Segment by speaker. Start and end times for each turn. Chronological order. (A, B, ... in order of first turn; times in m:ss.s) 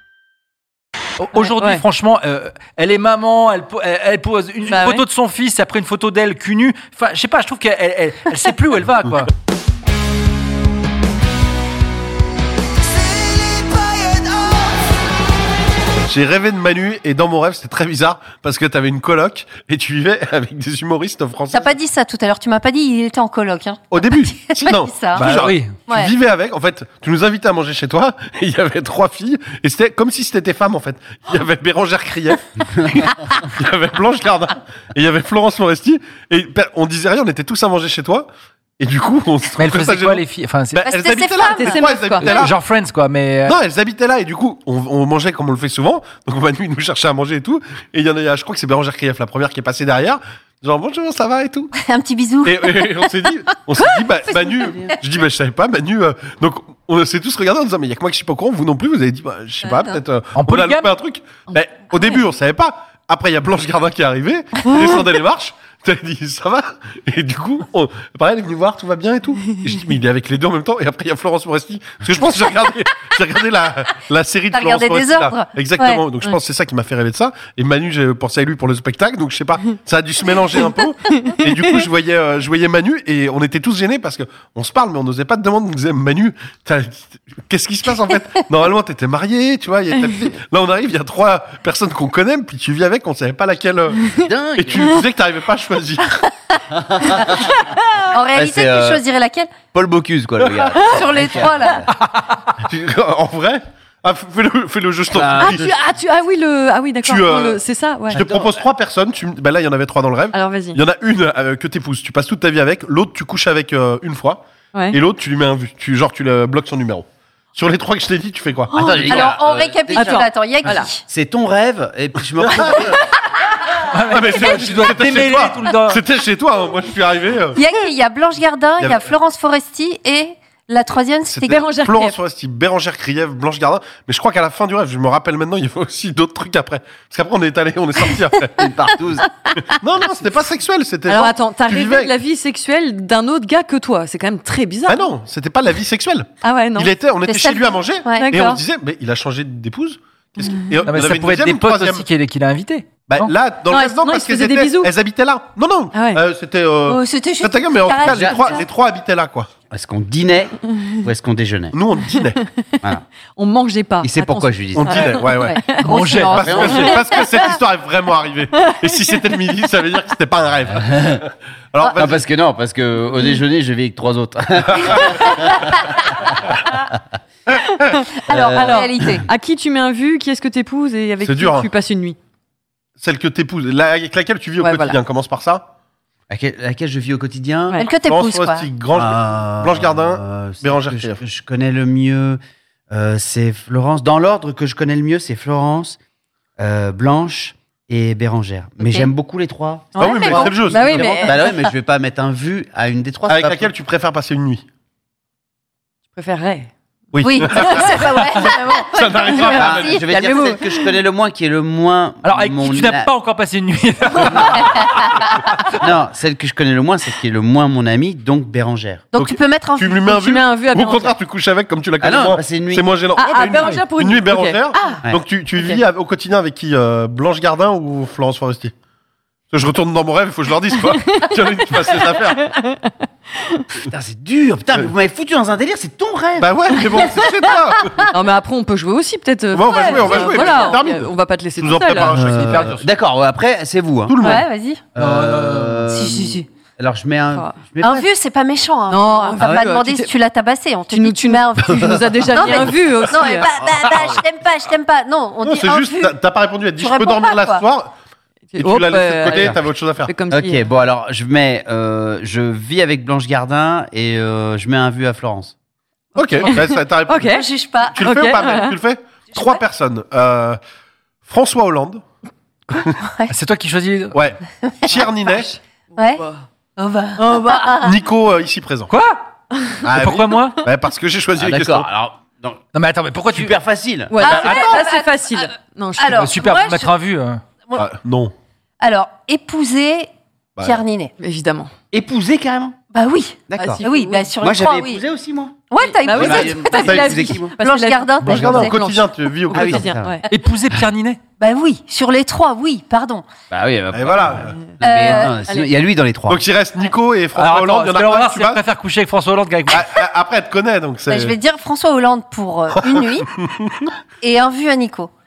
0:01.2-0:09.3 A
0:01.4-0:01.8 B
0:04.7-0:05.0 B
0:16.1-0:21.8 C
0:21.5-0:26.1 D
0:23.9-0:38.3 C
0:25.2-0:25.8 A
0:38.8-0:42.6 C
0:39.6-0:40.8 A
0:40.8-0:42.5 D
0:41.6-0:42.3 B
0:42.2-0:43.6 A
0:43.4-0:51.7 C
0:51.7-0:55.0 D
0:52.4-1:36.2 C
0:54.6-0:55.0 E
0:59.7-1:00.0 D
1:00.4-1:00.9 A
1:14.5-1:16.1 D
1:21.1-1:21.8 B
1:34.2-1:34.9 E
1:36.8-1:37.5 E
1:38.1-1:39.6 D
1:38.3-1:39.0 E
1:39.7-1:41.9 E
1:40.5-1:40.8 C
1:40.8-1:41.8 D
1:42.6-1:45.7 C
1:45.1-1:45.7 E
1:45.4-1:48.2 B
1:47.0-1:59.3 C
1:48.1-1:48.5 E
1:50.3-1:50.8 B
1:54.7-1:55.0 B
1:58.7-2:03.0 E
1:58.8-2:01.0 D
1:59.9-2:00.9 B
2:02.7-2:03.1 D
2:03.9-2:06.0 A
2:04.1-2:07.6 C
2:07.6-2:11.6 D
2:08.8-2:09.1 C
2:11.3-2:18.7 C
2:11.5-2:12.2 B
2:18.6-2:19.3 E
2:19.7-2:22.1 C
2:21.1-2:25.1 B
2:24.9-2:32.1 C
2:26.4-2:27.0 B
2:27.2-2:28.3 D
2:28.1-2:28.6 B
2:30.4-2:30.7 B
2:30.8-2:33.3 A
2:33.2-2:39.5 C
2:33.7-2:34.9 B
2:35.9-2:36.2 B
2:36.8-2:38.7 D
2:38.0-2:38.6 E
2:39.7-2:41.8 E
2:41.7-2:42.4 C
2:42.0-2:42.8 B
2:43.4-2:45.9 B
2:44.0-2:45.2 E
2:44.7-2:52.3 C
2:45.7-2:47.5 D
2:45.8-2:46.9 A
2:46.4-2:47.0 E
2:46.7-2:47.6 B
2:48.5-2:49.5 B
2:50.7-2:51.2 E
2:52.0-2:56.4 E
2:58.0-2:59.3 D
2:58.3-2:59.2 E
2:58.6-3:02.2 B
3:01.2-3:01.7 C
3:03.0-3:05.6 C
3:04.6-3:05.0 B
3:06.3-3:07.8 E
3:07.8-3:08.7 D
3:08.0-3:11.2 C
3:08.9-3:12.4 E
3:12.9-3:16.0 E
3:16.6-3:23.7 E
3:20.0-3:21.7 D
3:20.0-3:21.3 C
3:20.6-3:21.4 B
3:23.3-3:24.6 C
3:26.1-3:26.7 B
3:27.1-3:30.3 C
3:27.2-3:30.6 D
3:29.5-3:33.1 E
3:32.2-3:35.7 A
3:35.7-3:39.0 E
3:39.1-3:40.4 D
3:39.2-3:48.7 C
3:40.1-3:41.2 B
3:42.0-3:42.9 E
3:43.2-3:44.6 B
3:44.7-3:45.1 D
3:45.5-3:45.8 B
3:49.5-3:52.5 C
3:50.9-3:53.6 B
3:53.8-3:57.3 E
3:56.4-3:58.0 C
3:57.8-3:58.2 D
3:58.1-4:02.1 B
3:59.5-4:02.8 C
3:59.7-4:00.7 D
4:02.1-4:04.3 E
4:02.3-4:02.9 A
4:04.1-4:04.5 C
4:04.2-4:04.8 D
4:05.0-4:08.1 E
4:05.0-4:05.8 A
4:05.9-4:06.4 D
4:07.8-4:16.2 D
4:08.9-4:10.1 B
4:09.4-4:09.7 E
4:10.9-4:13.5 B
4:13.1-4:14.2 C
4:15.4-4:17.9 C
4:16.8-4:17.7 D
4:18.5-4:20.6 B
4:18.6-4:20.1 C
4:20.3-4:25.6 E
4:26.2-4:30.6 C
4:26.2-4:27.5 B
4:27.3-4:28.5 D
4:28.1-4:28.8 B
4:29.3-4:29.6 D
4:31.2-4:32.0 C
4:32.7-4:33.0 C
4:33.0-4:33.3 D
4:33.3-4:34.3 A
4:34.1-4:35.5 C
4:34.6-4:35.1 D
4:35.5-4:36.5 B
4:36.0-4:36.2 D
4:36.8-4:38.0 D
4:37.2-4:37.7 B
4:37.8-4:38.9 C
4:38.9-4:39.2 A
4:39.5-4:39.8 B
4:39.9-4:40.2 E
4:39.9-4:40.6 A
4:39.9-4:41.9 C
4:41.4-4:42.6 E
4:42.7-4:43.6 A
4:43.3-4:44.7 E
4:44.1-4:46.5 B
4:44.2-4:45.4 D
4:46.0-4:46.9 D
4:46.1-4:47.4 A
4:47.7-4:48.3 C
4:48.8-4:51.1 D
4:51.2-4:51.7 B
4:51.9-4:52.8 E
4:52.9-4:55.0 D
4:53.5-4:53.8 E
4:53.6-4:54.2 B
4:54.4-4:57.5 E
4:55.7-4:58.8 D
4:55.8-5:00.2 B
4:56.2-4:57.2 C
4:58.2-4:59.9 C
4:59.5-5:00.2 E
5:00.3-5:01.2 A
5:01.4-5:03.3 D
5:03.5-5:06.4 E
5:03.9-5:04.6 C
5:04.8-5:05.4 D
5:05.4-5:05.7 B
5:06.3-5:08.6 C
5:07.3-5:09.9 A
5:09.7-5:11.4 C
5:11.1-5:13.3 D
5:12.7-5:13.9 C
5:14.2-5:15.1 D